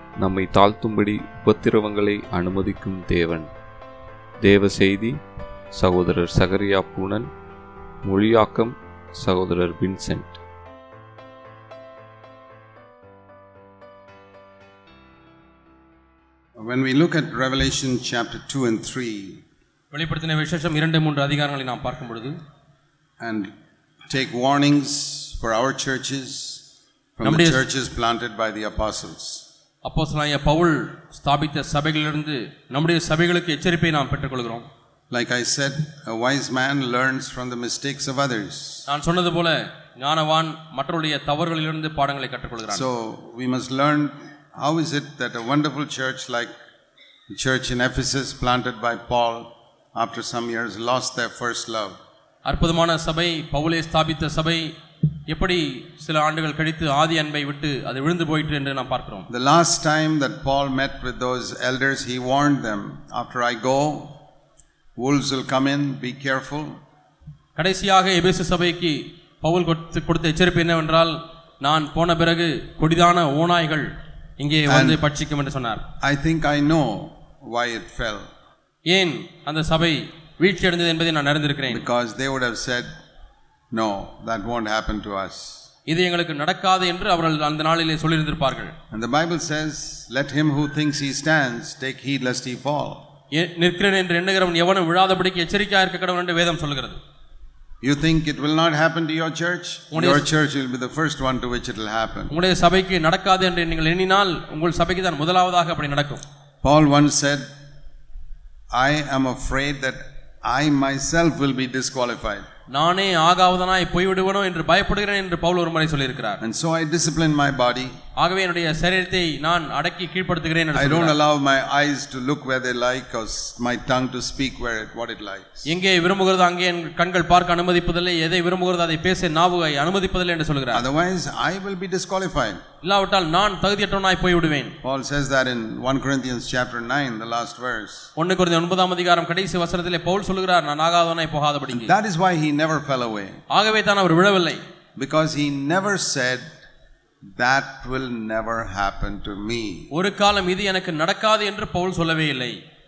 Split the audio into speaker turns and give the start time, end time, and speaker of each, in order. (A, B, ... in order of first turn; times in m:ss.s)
0:00.2-0:03.5 A
0:04.4-0:05.2 A
0:05.7-0:07.3 A
0:08.0-0:10.4 A
0:16.6-0:19.4 B
0:19.9-0:22.4 C
0:23.2-0:23.5 B
0:24.1-0:26.6 B
0:27.2-0:29.4 B
0:27.2-0:27.6 C
0:29.8-0:34.7 C
0:35.1-0:38.9 B
0:38.9-0:42.8 C
0:42.7-0:46.6 B
0:47.3-0:52.0 B
0:52.5-0:54.7 C
0:55.3-0:59.3 C
0:59.3-1:04.2 B
1:05.0-1:06.8 B
1:07.6-1:15.8 C
1:14.7-1:15.0 B
1:16.0-1:18.3 B
1:18.9-1:21.8 C
1:21.7-1:22.9 B
1:23.7-1:25.6 B
1:25.9-1:28.7 C
1:28.9-1:33.0 B
1:33.3-1:37.0 C
1:37.8-1:42.3 B
1:39.9-1:40.2 C
1:42.3-1:46.2 C
1:46.6-1:47.5 B
1:48.7-1:52.5 B
1:52.7-1:56.4 C
1:56.4-1:58.0 B
1:58.2-2:01.2 C
2:00.7-2:05.7 B
2:05.7-2:10.8 C
2:10.7-2:12.6 B
2:12.8-2:14.8 C
2:14.8-2:18.1 B
2:18.2-2:21.9 C
2:21.7-2:23.4 B
2:23.5-2:24.6 C
2:25.0-2:26.5 B
2:27.2-2:29.9 B
2:29.9-2:32.6 C